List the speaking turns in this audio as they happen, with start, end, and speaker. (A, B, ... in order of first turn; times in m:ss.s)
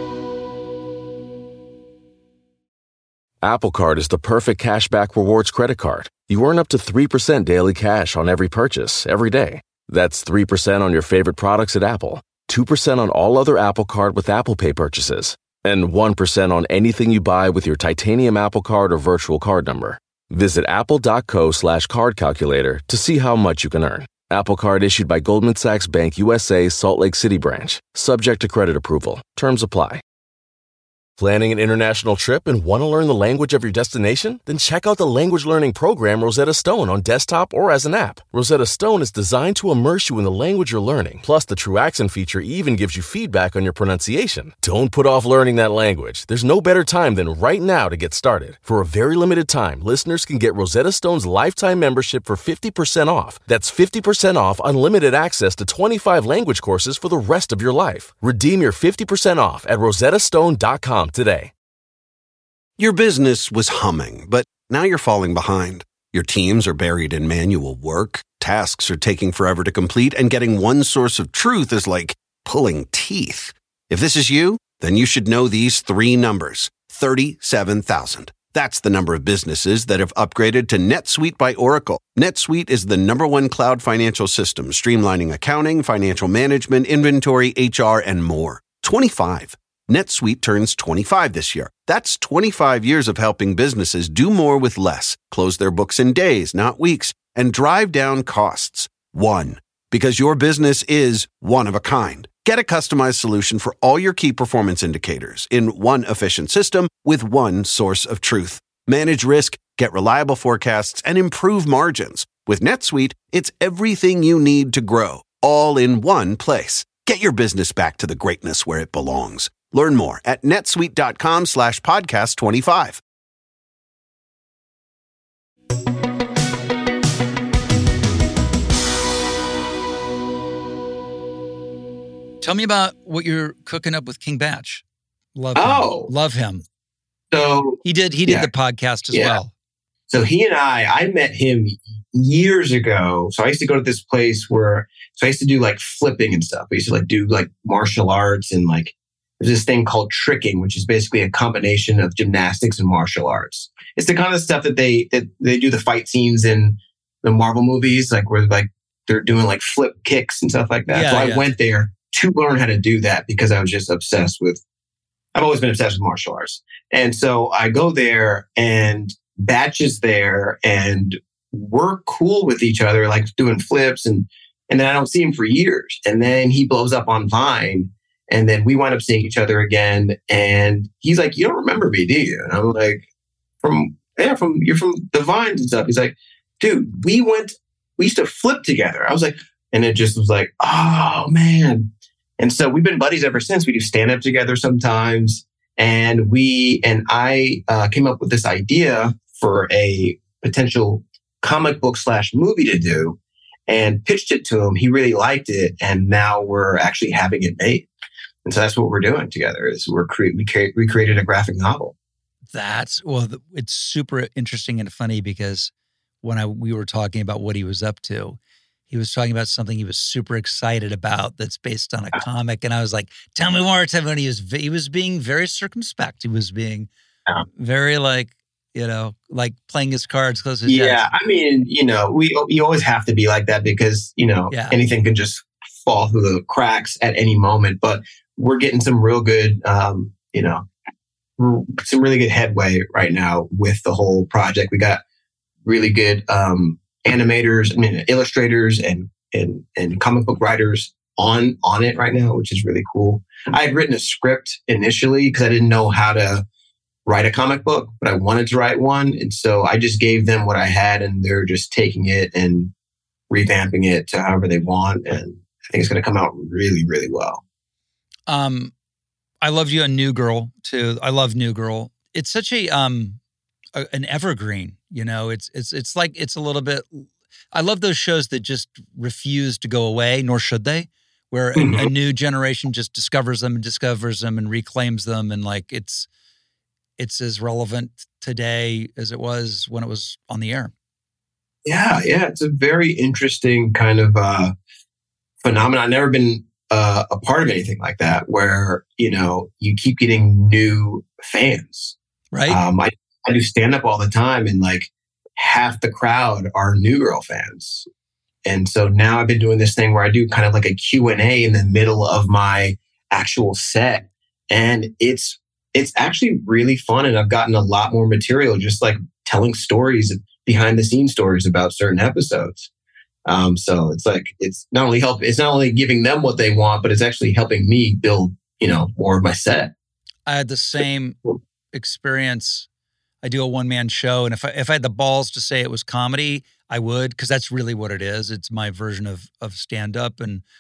0:03.4-0:30.0 A
0:31.2-1:01.5 A
1:02.8-2:03.0 B
2:12.4-2:14.8 C
2:15.4-2:16.6 C
2:15.6-2:16.1 D
2:17.3-2:18.5 D
2:17.8-2:19.5 C
2:19.1-2:19.4 D
2:20.1-2:44.6 D
2:40.9-2:41.5 C
2:45.3-3:03.0 D
3:03.6-3:27.9 D
3:28.4-3:32.0 D
3:32.5-3:46.9 C
3:47.6-3:51.1 C
3:50.7-4:00.6 D
3:54.5-3:54.8 C
4:01.4-4:05.0 D
4:05.6-4:16.4 D
4:17.1-4:22.7 D
4:23.3-4:27.4 D
4:28.3-4:28.7 C
4:29.4-4:33.2 C
4:33.8-4:46.1 C
4:41.6-4:41.9 D
4:47.0-4:50.7 C
4:51.6-4:54.5 D
4:55.4-5:02.0 D
5:02.3-5:02.6 C
5:02.5-5:07.8 D
5:08.4-5:22.7 D
5:23.3-5:29.7 D
5:30.3-5:31.2 C
5:31.7-5:32.7 C
5:33.2-5:40.4 C